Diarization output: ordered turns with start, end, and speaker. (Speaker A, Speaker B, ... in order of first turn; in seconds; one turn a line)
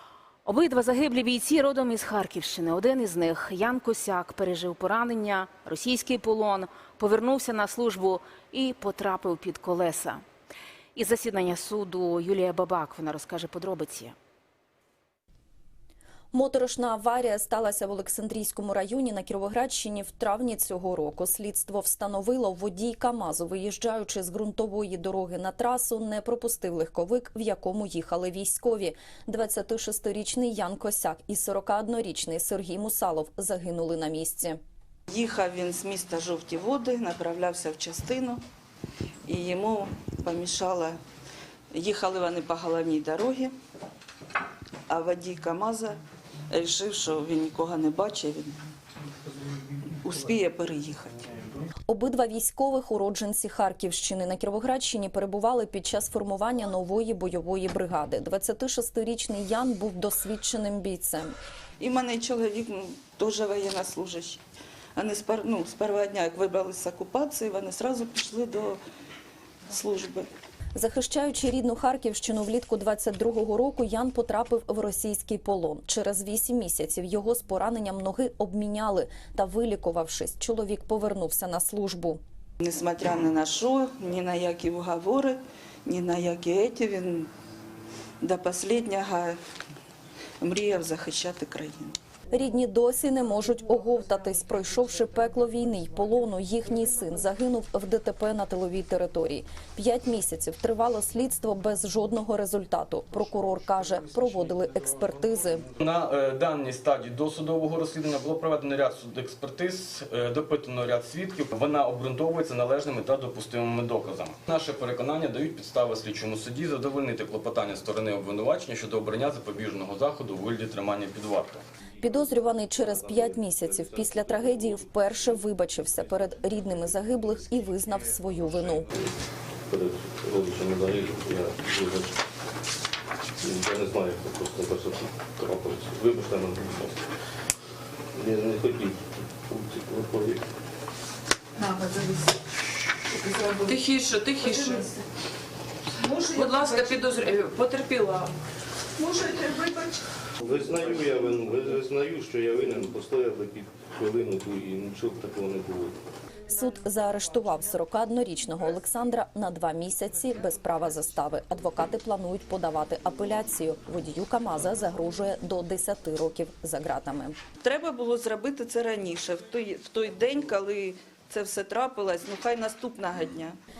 Speaker A: 0.5-10.2
Speaker A: 10.9-14.1
Speaker B: 16.3-34.6
Speaker C: 35.1-38.4
Speaker C: 39.2-41.0
Speaker C: 41.7-43.5
Speaker C: 44.9-48.6
Speaker C: 50.0-51.2
Speaker B: 51.9-61.3
Speaker C: 61.8-64.4
Speaker C: 65.0-68.8
Speaker C: 69.7-70.3
Speaker B: 70.8-82.2
Speaker C: 82.6-87.3
Speaker C: 88.2-89.4
Speaker C: 90.4-92.0
Speaker B: 92.3-105.7
Speaker D: 105.8-121.6
Speaker E: 122.0-125.2
Speaker B: 122.0-128.9
Speaker E: 129.7-132.2
Speaker E: 133.4-137.0
Speaker E: 138.1-140.4
Speaker C: 141.6-142.2
Speaker C: 143.2-143.8
Speaker F: 143.6-144.9
Speaker C: 144.3-144.9
Speaker F: 146.0-148.3
Speaker C: 146.1-147.0
Speaker C: 149.0-149.9
Speaker E: 150.4-155.9
Speaker B: 156.4-167.4
Speaker C: 167.6-173.6